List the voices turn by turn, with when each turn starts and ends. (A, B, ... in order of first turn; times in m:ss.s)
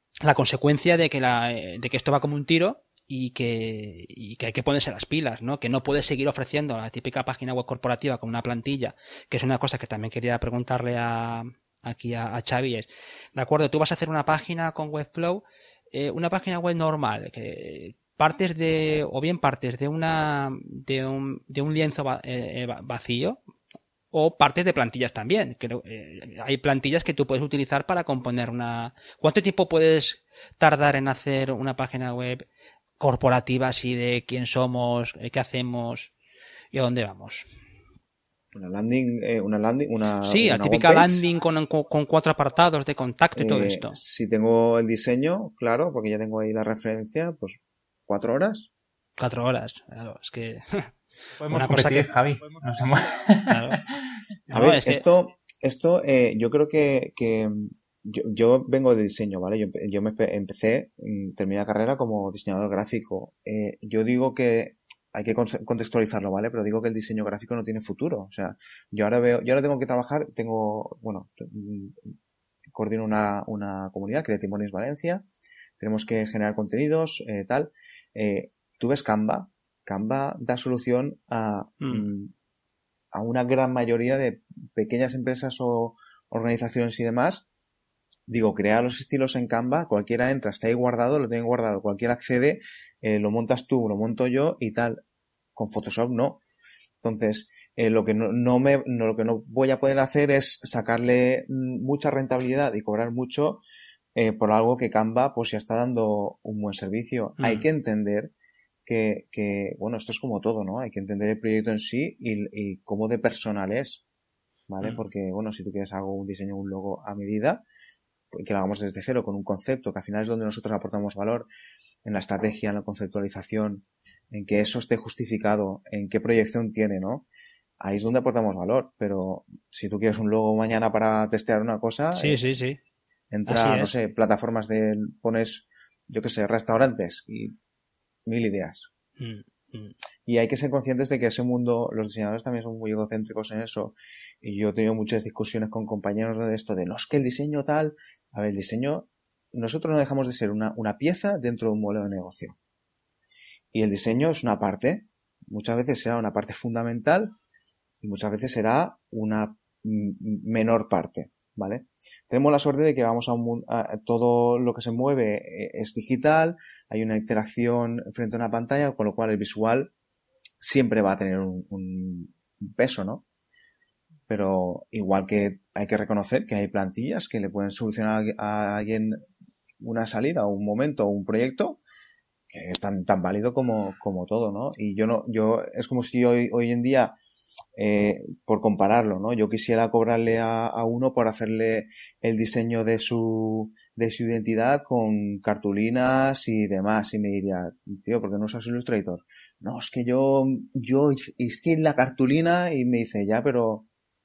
0:00.2-0:23.4 A
0:24.1-0:32.4 A
0:33.0-0:36.1 A
0:36.7-0:37.5 A
0:38.5-0:41.2 B
0:40.2-0:44.0 A
0:43.4-0:48.7 B
0:49.2-0:50.9 A
0:51.4-0:54.0 C
0:51.5-0:52.1 A
0:53.5-0:53.8 A
0:54.5-0:55.0 A
0:54.5-1:12.1 B
1:12.7-1:15.2 B
1:15.8-1:22.3 B
1:21.8-1:22.1 A
1:23.1-1:27.5 B
1:28.3-1:35.0 B
1:35.6-1:36.4 B
1:37.0-1:43.6 B
1:44.2-1:48.3 B
1:47.4-1:47.7 A
1:48.9-1:54.0 B
1:54.7-1:57.6 B
1:58.3-2:01.5 B
2:02.0-2:07.3 B
2:07.8-2:12.4 B
2:12.2-2:12.8 A
2:13.3-2:17.6 B
2:13.5-2:13.9 A
2:18.3-2:18.9 B
2:19.2-2:19.9 A
2:20.3-2:32.6 B
2:33.7-2:37.4 B
2:38.0-2:49.9 B
2:50.6-2:53.2 B
2:54.3-2:59.2 B
2:59.8-3:01.8 B
3:02.5-3:07.2 B
3:07.8-3:23.9 B